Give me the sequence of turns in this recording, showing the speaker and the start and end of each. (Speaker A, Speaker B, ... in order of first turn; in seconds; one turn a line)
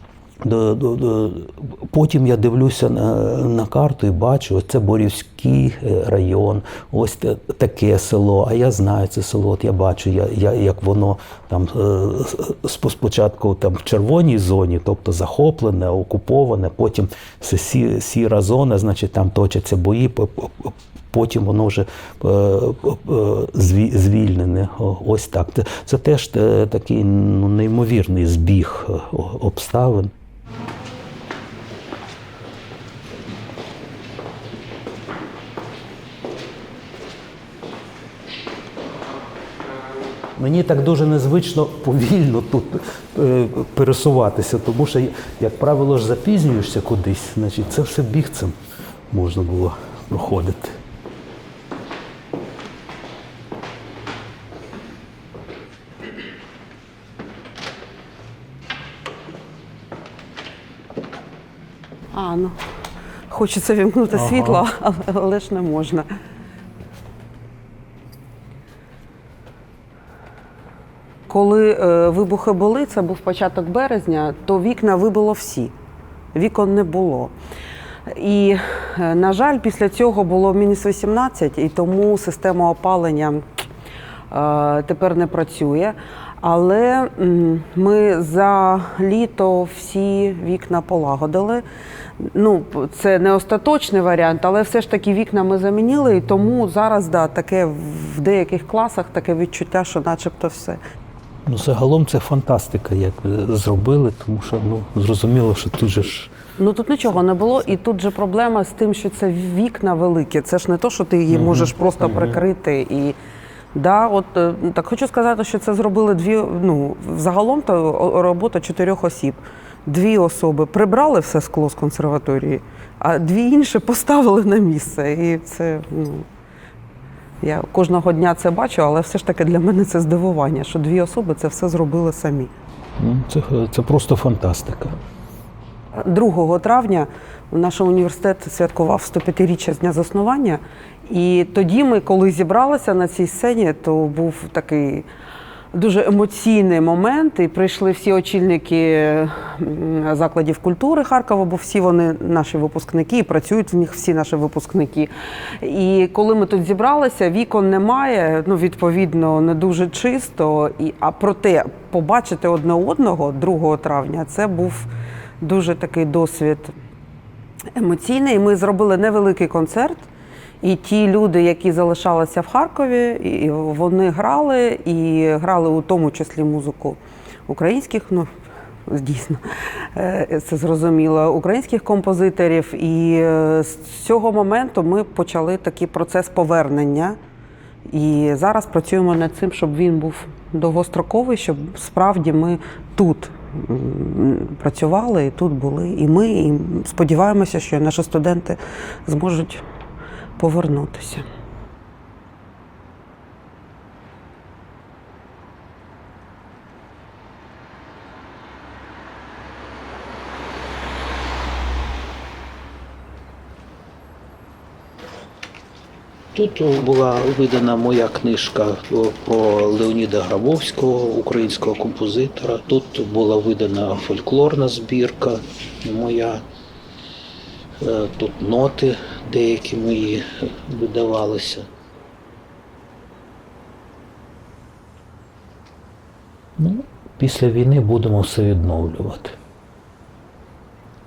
Speaker A: 0.4-30.1
Speaker A: 40.4-48.5
Speaker A: 49.1-50.8
Speaker B: 62.1-62.6
Speaker B: 63.3-66.1
Speaker A: 64.1-64.6
Speaker B: 71.3-75.7
Speaker B: 76.3-77.3
Speaker B: 78.1-83.4
Speaker B: 84.3-91.6
Speaker B: 92.2-100.8
Speaker A: 101.5-106.3
Speaker B: 106.6-113.2
Speaker A: 111.3-112.4
Speaker B: 113.7-126.2
Speaker B: 127.4-132.5
Speaker A: 133.0-134.9
Speaker B: 135.9-145.1
Speaker B: 145.7-166.7
Speaker B: 167.7-170.1
Speaker B: 170.6-178.3
Speaker B: 178.9-187.2
Speaker B: 187.9-199.6
Speaker B: 200.4-201.2
Speaker A: 216.3-226.4
Speaker A: 227.8-231.7
Speaker A: 236.6-239.4